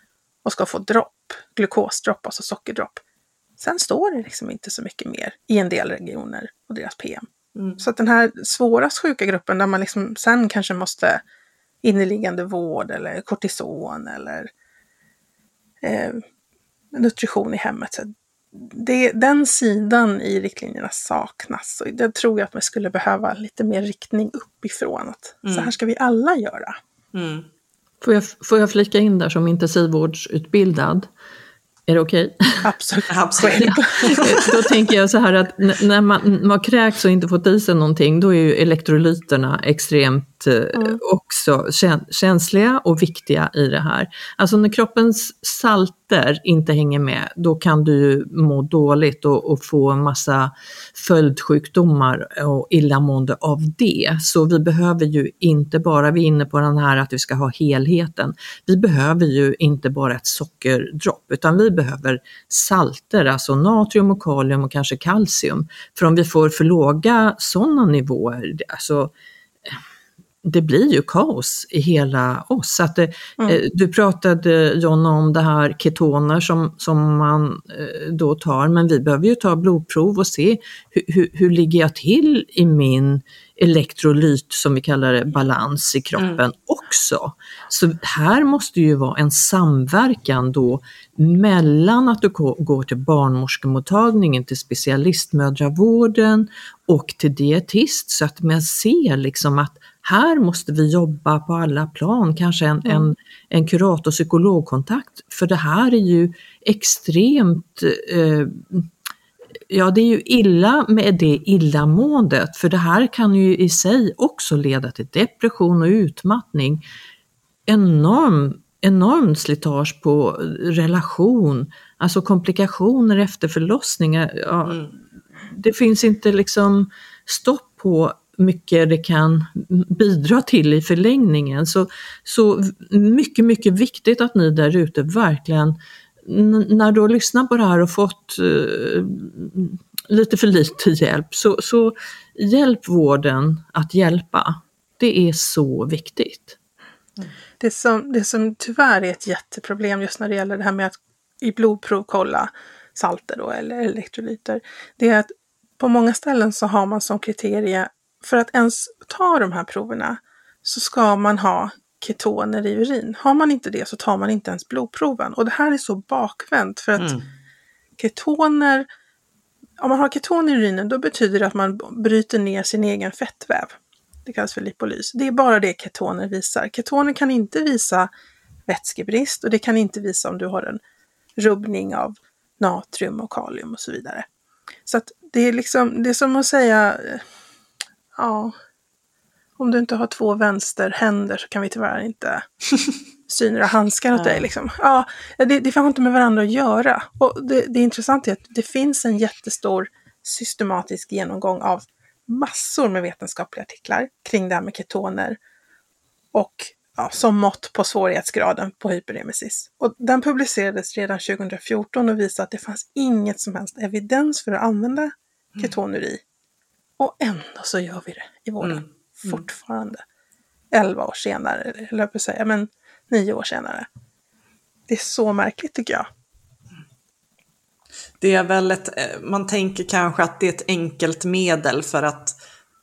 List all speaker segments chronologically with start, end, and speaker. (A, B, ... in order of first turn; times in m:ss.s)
0:00.4-0:03.0 A
0:03.6-0:07.2 A
0:07.6-0:07.8 B
0:07.8-0:11.2 A
0:11.8-0:14.5 A
0:15.8-0:16.2 A
0:16.9-0:26.8 A
0:25.4-0:25.7 B
0:27.1-0:27.5 B
0:28.0-0:31.1 C
0:31.9-0:32.7 C
0:32.6-0:34.5 A
0:33.1-0:34.4 B
0:33.5-1:09.1 C
0:40.7-0:41.0 A
1:10.4-1:48.9 C
1:26.2-1:26.4 B
1:49.7-1:56.8 C
1:57.7-2:04.8 C
2:04.6-2:04.9 B
2:05.5-2:26.6 C
2:27.6-2:47.1 A
2:47.0-2:47.3 B
2:48.0-2:48.9 A
2:49.8-2:53.7 A
2:54.2-2:58.1 A
2:58.7-3:00.8 A
3:01.4-3:04.2 A
3:04.8-3:07.2 A
3:08.2-3:08.5 A
3:09.6-3:12.4 A
3:13.3-3:25.4 A
3:14.1-3:14.5 B
3:26.3-3:36.2 A
3:37.0-3:40.0 A
3:38.6-3:39.4 B
3:40.7-3:43.9 A
3:44.9-3:46.1 A
3:48.2-3:52.4 B